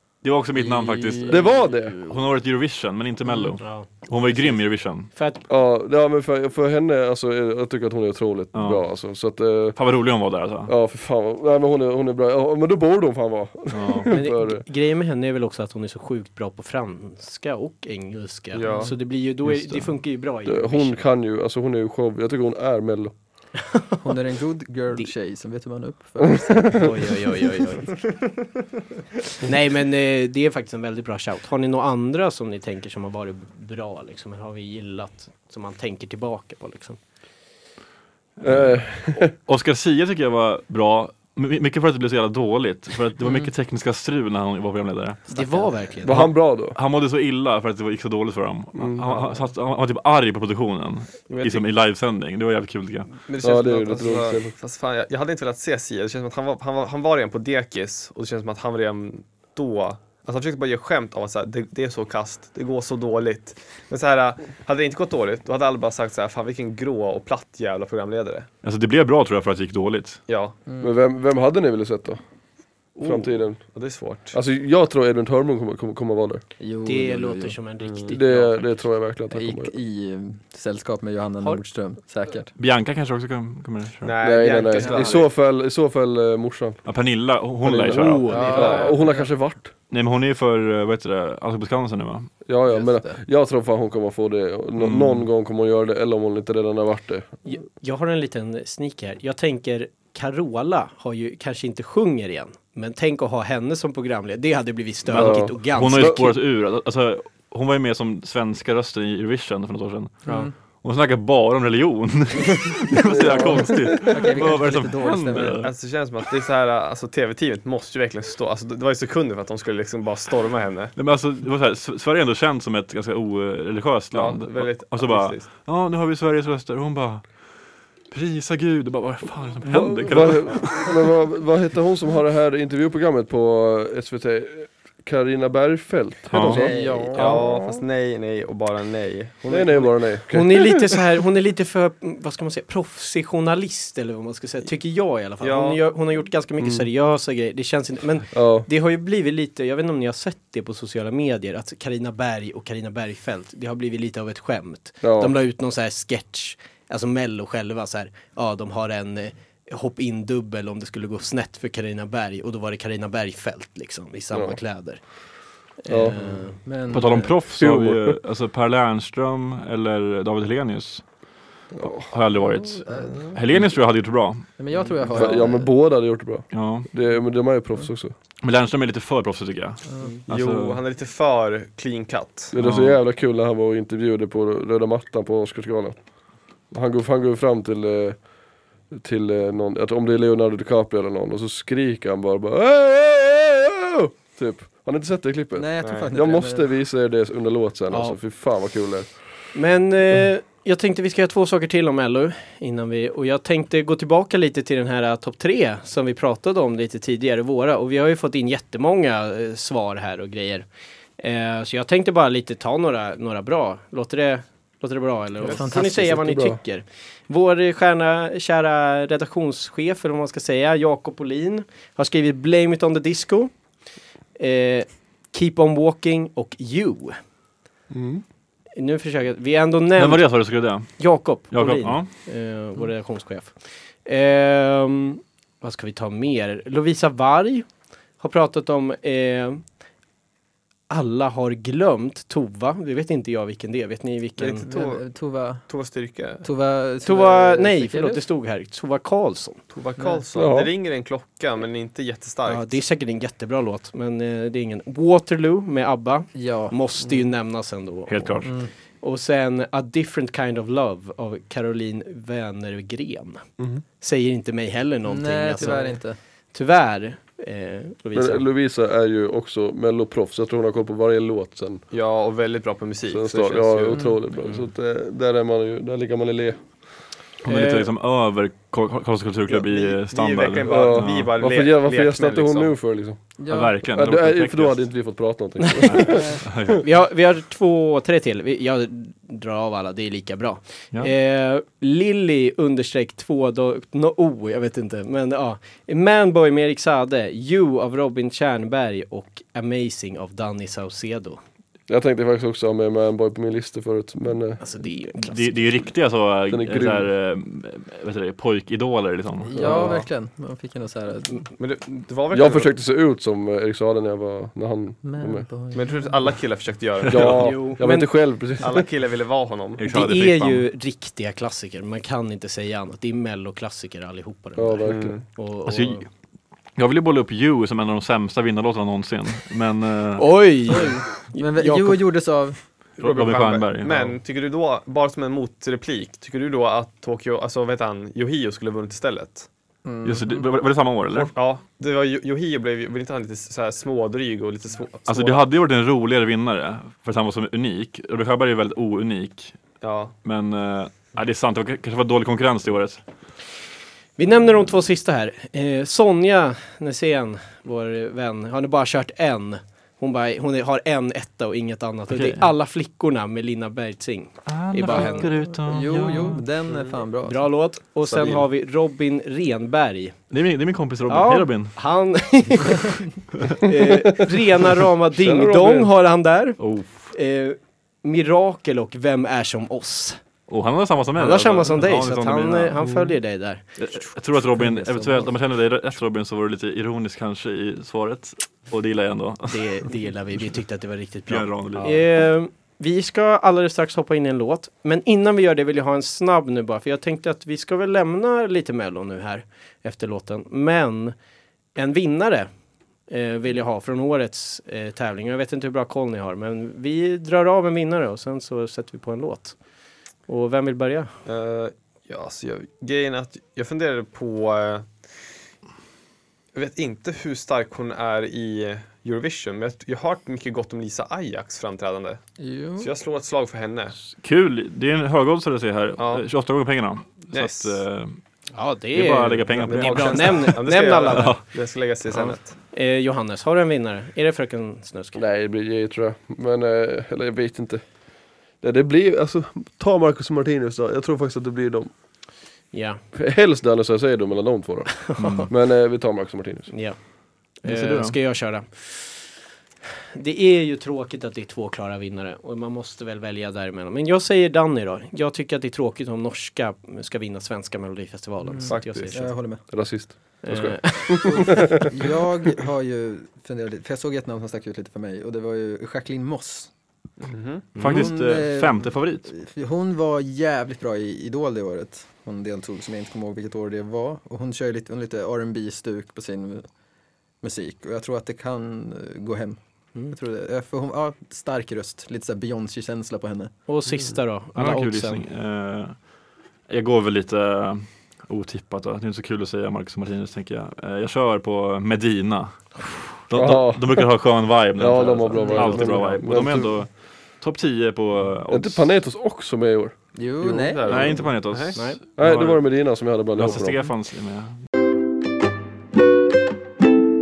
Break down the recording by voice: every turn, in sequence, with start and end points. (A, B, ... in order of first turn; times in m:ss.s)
0:00.2-0:05.1 A
0:00.6-0:02.2 B
0:01.3-0:02.0 C
0:03.6-0:05.4 D
0:05.5-0:09.8 C
0:08.5-0:08.8 A
0:09.8-0:10.7 A
0:10.7-0:14.6 C
0:13.7-0:14.1 A
0:14.1-0:21.1 D
0:18.5-0:18.9 E
0:19.4-0:19.9 A
0:20.5-0:23.1 C
0:24.0-0:27.2 B
0:26.8-0:27.9 D
0:29.4-0:37.0 D
0:38.4-0:45.2 A
0:38.4-0:39.3 C
0:45.3-0:45.8 B
0:45.3-0:46.2 D
0:46.0-0:46.8 C
0:46.0-0:53.2 A
0:48.8-0:49.0 C
0:49.0-0:49.4 E
0:51.3-0:51.6 E
0:53.3-1:08.5 E
0:53.4-0:54.6 C
1:08.6-1:10.2 A
1:10.3-1:10.6 E
1:10.7-1:11.0 B
1:10.8-1:12.2 C
1:13.0-1:13.7 C
1:13.0-1:14.4 E
1:14.3-1:16.4 C
1:16.6-1:17.6 B
1:16.8-1:18.8 D
1:17.8-1:18.2 E
1:18.1-1:19.7 C
1:19.3-1:22.5 B
1:22.6-1:24.1 A
1:24.0-1:25.3 E
1:24.2-1:26.8 C
1:24.8-1:25.2 B
1:26.8-1:28.8 A
1:27.6-1:29.7 C
1:28.3-1:29.0 D
1:28.3-1:29.2 B
1:29.9-1:32.3 A
1:32.5-1:37.3 C
1:32.7-1:33.2 B
1:34.8-1:35.3 A
1:37.5-1:46.4 D
1:45.1-1:50.3 A
1:45.1-1:46.2 C
1:50.3-1:50.5 B
1:50.8-1:55.7 A
1:53.0-1:54.4 C
1:54.1-1:55.6 B
1:55.6-2:00.9 E
2:01.0-2:07.3 A
2:04.1-2:05.5 E
2:08.1-2:11.0 A
2:09.7-2:17.5 C
2:16.3-2:16.7 A
2:16.4-2:17.5 B
2:16.8-2:17.4 D
2:17.0-2:20.1 E
2:19.5-2:20.9 C
2:20.3-2:45.0 D
2:25.4-2:25.8 E
2:26.6-2:26.9 C
2:28.3-2:28.7 C
2:35.0-2:35.4 C
2:44.3-2:44.6 C
2:45.8-2:46.6 D
2:45.9-2:46.5 C
2:46.6-2:47.4 B
2:46.9-2:51.0 A
2:47.6-2:48.2 C
2:51.8-2:52.1 C
2:51.8-2:54.5 A
2:52.8-2:53.4 B
2:54.6-2:55.7 B
2:55.2-2:58.1 C
2:56.5-2:56.9 A
2:58.4-3:00.8 A
2:59.9-3:00.2 B
3:00.3-3:02.5 E
3:02.5-3:06.0 C
3:02.6-3:03.0 A
3:06.7-3:08.2 C
3:08.9-3:19.3 C
3:15.6-3:16.7 B
3:15.8-3:16.1 E
3:17.9-3:18.2 D
3:19.5-3:30.7 D
3:31.2-3:43.5 D
3:35.4-3:36.4 B
3:36.1-3:36.6 C
3:44.4-3:47.2 D
3:47.9-3:48.2 C
3:48.8-3:57.7 D
3:50.0-3:52.1 A
3:58.2-3:59.6 D
4:00.9-4:04.7 D
4:04.4-4:05.0 E
4:04.6-4:05.7 B
4:05.6-4:06.5 E
4:06.4-4:08.2 B
4:07.0-4:09.6 D
4:09.7-4:12.8 E
4:10.3-4:10.7 C
4:12.5-4:23.4 D
4:16.3-4:16.8 B
4:18.1-4:18.5 A
4:18.4-4:18.7 B
4:23.6-4:23.8 C
4:24.0-4:28.5 D
4:25.0-4:26.2 B
4:28.1-4:31.8 C
4:31.9-4:34.1 E
4:33.1-4:36.6 C
4:33.9-4:34.2 B
4:37.4-4:41.3 A
4:37.4-4:37.9 D
4:39.5-4:42.8 E
4:40.7-4:43.2 C
4:43.4-4:43.8 B
4:43.5-4:44.9 A
4:43.8-4:46.7 C
4:45.7-4:46.1 D
4:45.8-4:46.8 A
4:46.1-4:46.4 B
4:46.8-5:01.4 D
5:01.9-5:04.6 C
5:04.6-5:05.7 D
5:05.2-5:09.8 A
5:06.5-5:07.1 C
5:09.4-5:11.5 B
5:09.6-5:10.1 C
5:11.6-5:12.7 E
5:12.3-5:15.5 C
5:15.0-5:16.1 B
5:15.7-5:17.8 E
5:17.1-5:18.9 C
5:17.4-5:18.1 D
5:18.6-5:19.9 E
5:19.8-5:20.7 A
5:19.9-5:26.1 D
5:24.6-5:25.2 C
5:24.8-5:25.2 E
5:25.7-5:26.1 A
5:26.8-5:30.4 A
5:30.2-5:32.0 D
5:30.7-5:32.6 B
5:33.0-5:34.2 A
5:33.0-5:39.5 E
5:39.8-5:40.5 B
5:40.0-5:41.3 A
5:41.3-5:45.4 E
5:45.1-5:49.6 A
5:49.8-5:50.1 E
5:50.2-5:53.0 A
5:54.2-6:05.3 D
6:02.1-6:02.5 A
6:04.5-6:06.4 A
6:05.5-6:07.5 B
6:06.7-6:07.0 E
6:07.3-6:10.2 D
6:08.1-6:08.4 E
6:10.3-6:11.8 A
6:11.1-6:20.2 D
6:15.2-6:15.9 C
6:16.6-6:17.1 A
6:20.5-6:22.8 A
6:21.2-6:23.6 D
6:22.8-6:23.2 C
6:23.8-6:30.4 A
6:24.7-6:25.3 B
6:29.5-6:41.2 D
6:31.3-6:32.0 A
6:41.8-6:42.5 D
6:43.1-6:49.6 D
6:50.3-6:51.1 D
6:51.2-6:55.0 E
6:56.5-7:02.2 E
7:02.4-7:02.9 B
7:02.8-7:04.0 E
7:04.0-7:08.2 A
7:06.0-7:06.3 E
7:07.3-7:07.8 E
7:08.5-7:11.4 D
7:08.9-7:10.6 A
7:09.5-7:12.5 E
7:11.1-7:11.4 A
7:12.1-7:15.2 D
7:15.2-7:17.8 C
7:18.6-7:21.9 C
7:22.7-7:23.0 D
7:23.1-7:26.7 C
7:25.1-7:25.5 D
7:25.2-7:25.5 A
7:26.7-7:27.0 D
7:27.6-7:29.3 D
7:27.6-7:28.2 A
7:30.2-7:39.3 D
7:38.5-7:39.6 B
7:38.6-7:39.2 E
7:39.7-7:42.1 C
7:40.4-7:41.6 D
7:41.1-7:46.7 B
7:47.2-7:47.7 E
7:47.8-7:48.1 D
7:47.8-7:49.3 A
7:47.9-7:56.7 B
7:57.4-8:03.5 B
8:03.7-8:05.3 D
8:04.6-8:06.1 A
8:06.7-8:18.9 A
8:13.4-8:14.2 C
8:14.8-8:16.8 C
8:15.4-8:16.1 B
8:18.5-8:21.0 C
8:20.2-8:21.2 B
8:20.6-8:21.9 E
8:20.9-8:22.6 A
8:22.2-8:23.8 C
8:23.3-8:24.6 A